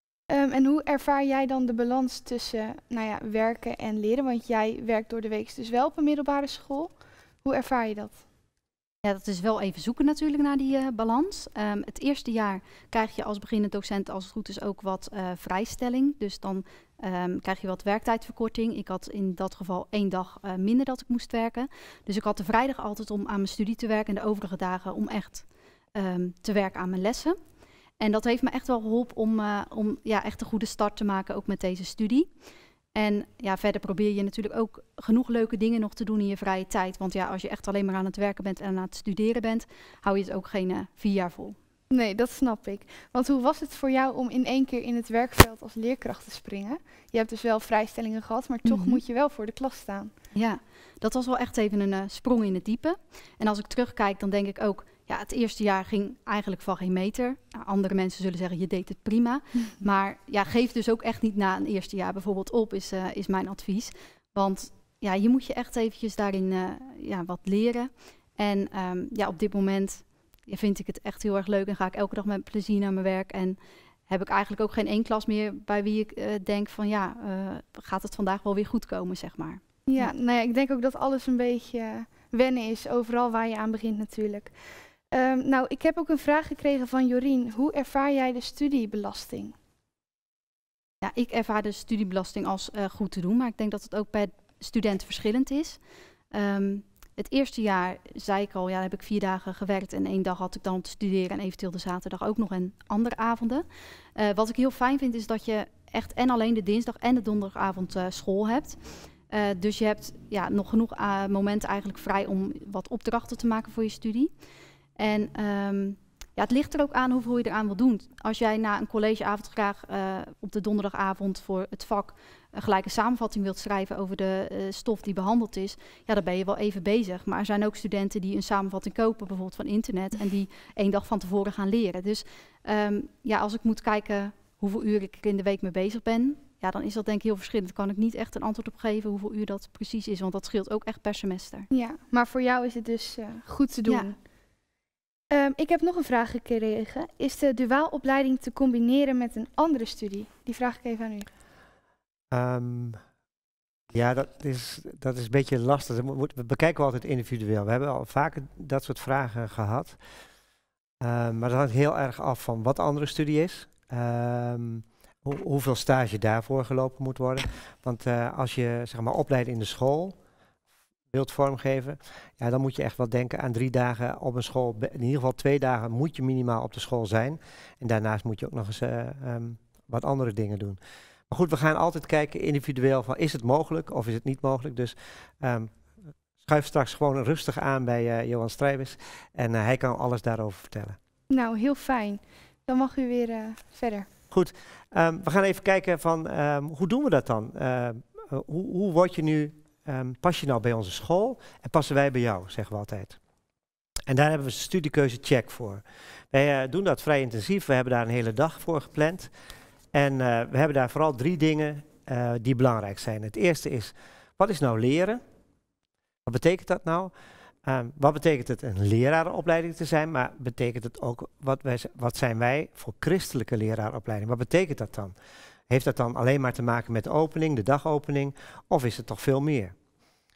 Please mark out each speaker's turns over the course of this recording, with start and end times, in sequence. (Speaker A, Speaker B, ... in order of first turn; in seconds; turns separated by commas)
Speaker A: 0.3-6.9, Speaker A: 7.4-8.2, Speaker B: 9.0-27.4, Speaker B: 28.0-32.3, Speaker B: 33.0-41.6, Speaker A: 41.9-50.1, Speaker B: 48.7-49.0, Speaker B: 50.4-73.6, Speaker B: 74.1-80.1, Speaker A: 79.9-84.5, Speaker A: 85.1-89.5, Speaker B: 91.0-95.8, Speaker B: 96.3-103.7, Speaker B: 104.2-108.8, Speaker B: 109.3-114.3, Speaker B: 115.0-141.7, Speaker A: 141.7-144.2, Speaker A: 145.3-151.3, Speaker C: 152.3-153.0, Speaker C: 153.9-160.0, Speaker C: 161.0-170.2, Speaker C: 171.1-180.8, Speaker C: 181.3-185.7, Speaker C: 186.4-191.0, Speaker A: 191.3-194.1, Speaker C: 194.3-203.2, Speaker C: 204.1-209.3, Speaker C: 209.9-215.2, Speaker C: 216.3-217.1, Speaker C: 217.6-225.1, Speaker C: 225.7-229.7